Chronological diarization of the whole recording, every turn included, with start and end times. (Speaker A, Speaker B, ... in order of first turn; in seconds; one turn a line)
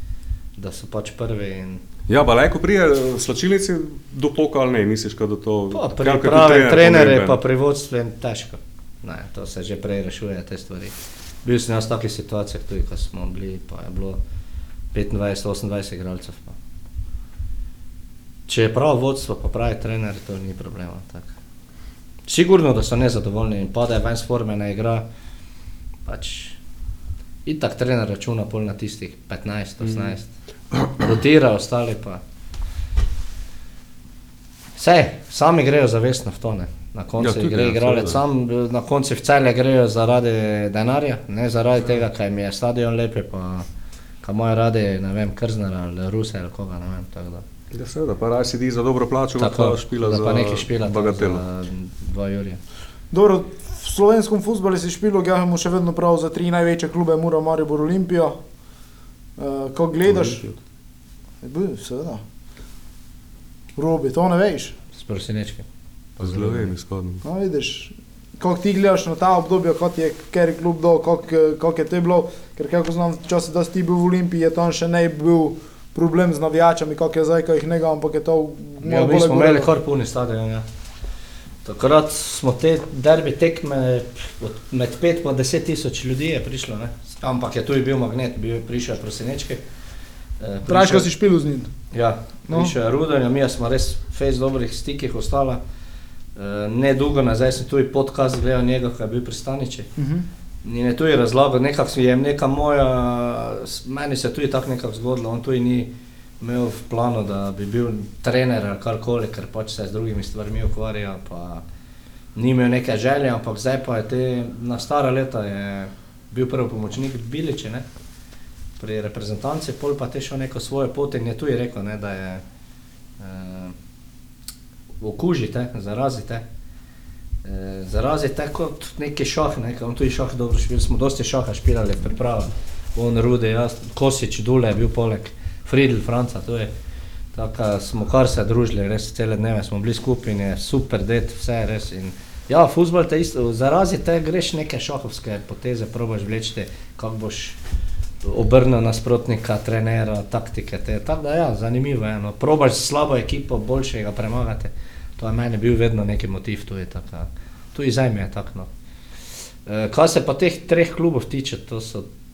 Speaker A: 0.6-1.8
Speaker B: 2.1-7.4
Speaker A: 5.7-14.2
Speaker A: 14.9-16.6
Speaker A: 18.5-21.3
Speaker A: 22.3-25.1
Speaker A: 26.1-26.6
Speaker A: 27.5-30.3
Speaker A: 30.9-32.2
Speaker A: 34.8-43.7
Speaker B: 37.2-38.2
Speaker A: 44.2-47.5
Speaker B: 47.7-51.4
Speaker A: 49.4-52.6
Speaker C: 53.1-58.4
Speaker C: 59.4-60.4
Speaker B: 60.0-60.5
Speaker C: 61.4-62.2
Speaker C: 63.8-64.8
Speaker A: 64.9-65.7
Speaker A: 66.2-66.7
Speaker B: 66.2-67.2
Speaker C: 67.2-79.7
Speaker A: 78.8-80.7
Speaker A: 81.7-89.6
Speaker A: 90.4-91.1
Speaker C: 90.7-91.7
Speaker A: 91.9-95.6
Speaker C: 92.5-92.8
Speaker A: 96.4-99.9
Speaker C: 100.0-100.3
Speaker A: 100.6-105.9
Speaker A: 106.4-111.6
Speaker A: 112.3-117.8
Speaker A: 118.8-122.4
Speaker A: 123.2-123.8
Speaker A: 125.0-126.5
Speaker A: 127.4-136.7
Speaker A: 137.3-147.6
Speaker A: 148.2-158.7
Speaker A: 159.7-162.1